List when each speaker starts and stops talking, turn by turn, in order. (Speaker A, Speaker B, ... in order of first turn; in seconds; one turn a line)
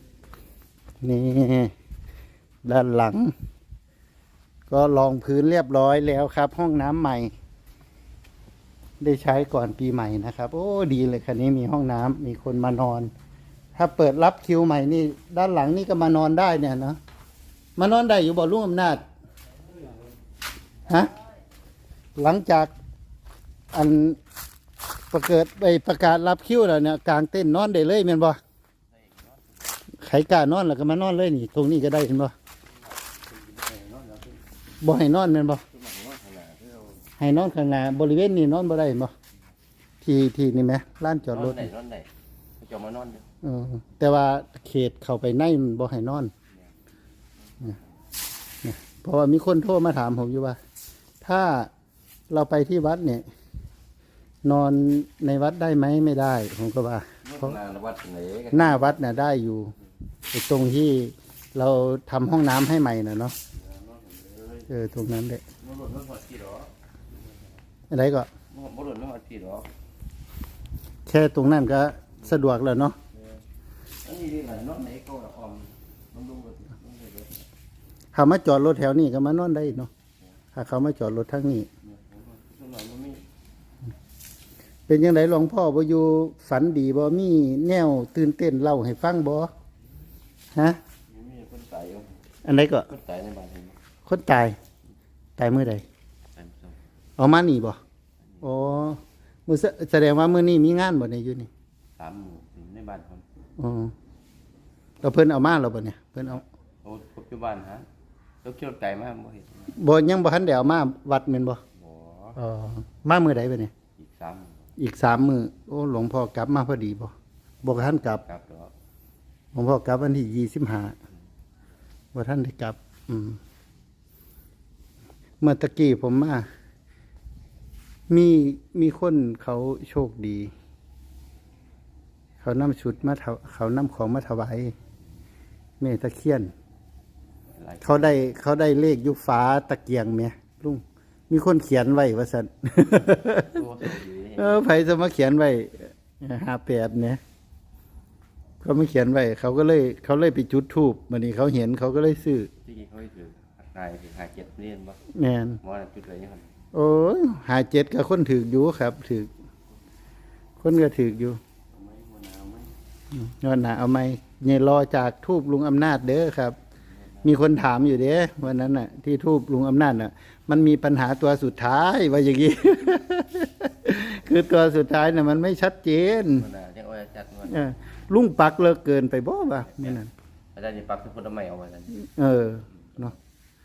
Speaker A: 1.0-1.7
Speaker A: 2.6-3.3
Speaker A: 4.7-7.3
Speaker A: 9.0-13.1
Speaker A: 13.8-17.0
Speaker A: 17.8-19.0
Speaker A: 20.9-21.1
Speaker A: 22.2-22.7
Speaker A: 23.7-24.2
Speaker A: 25.1-28.4
Speaker B: 29.0-29.4
Speaker A: 30.0-32.3
Speaker B: 33.3-34.4
Speaker A: 34.8-35.6
Speaker B: 35.7-37.0
Speaker A: 37.2-39.1
Speaker A: 40.0-41.7
Speaker B: 41.3-42.1
Speaker B: 42.6-43.3
Speaker A: 43.4-46.3
Speaker B: 47.5-47.8
Speaker A: 48.6-50.6
Speaker A: 51.2-51.7
Speaker A: 52.3-53.3
Speaker A: 54.4-57.6
Speaker B: 57.3-59.1
Speaker A: 58.5-59.8
Speaker A: 60.3-63.4
Speaker B: 63.5-64.7
Speaker A: 64.7-65.4
Speaker B: 65.6-66.7
Speaker A: 67.9-68.3
Speaker B: 68.5-69.7
Speaker A: 71.1-73.0
Speaker B: 73.1-73.4
Speaker B: 74.0-77.5
Speaker A: 78.1-79.9
Speaker A: 80.5-81.7
Speaker B: 81.9-83.2
Speaker A: 84.9-89.5
Speaker A: 90.5-90.8
Speaker B: 91.1-92.2
Speaker A: 92.5-92.9
Speaker B: 92.9-93.8
Speaker A: 94.1-94.6
Speaker A: 95.4-95.8
Speaker B: 96.4-96.8
Speaker A: 97.2-97.8
Speaker A: 98.4-101.5
Speaker B: 102.0-103.2
Speaker A: 103.6-103.9
Speaker A: 105.0-106.4
Speaker B: 106.8-107.8
Speaker B: 108.4-109.8
Speaker A: 109.7-111.6
Speaker B: 111.8-112.4
Speaker A: 112.4-113.7
Speaker B: 114.0-114.6
Speaker A: 114.8-117.1
Speaker A: 117.6-118.2
Speaker B: 118.1-118.7
Speaker A: 119.5-121.0
Speaker A: 122.1-123.4
Speaker A: 125.4-126.5
Speaker A: 128.1-130.5
Speaker A: 132.4-134.7
Speaker A: 135.8-136.5
Speaker B: 137.6-138.1
Speaker A: 137.8-143.6
Speaker B: 143.4-144.6
Speaker A: 144.4-147.2
Speaker A: 148.6-152.5
Speaker B: 152.6-155.0
Speaker A: 155.2-155.6
Speaker B: 155.6-156.5
Speaker A: 156.7-159.3
Speaker A: 160.6-161.4
Speaker B: 161.7-162.7
Speaker A: 163.1-166.6
Speaker A: 167.2-176.5
Speaker B: 176.4-177.6
Speaker A: 177.5-180.1
Speaker B: 180.6-182.0
Speaker A: 182.0-183.1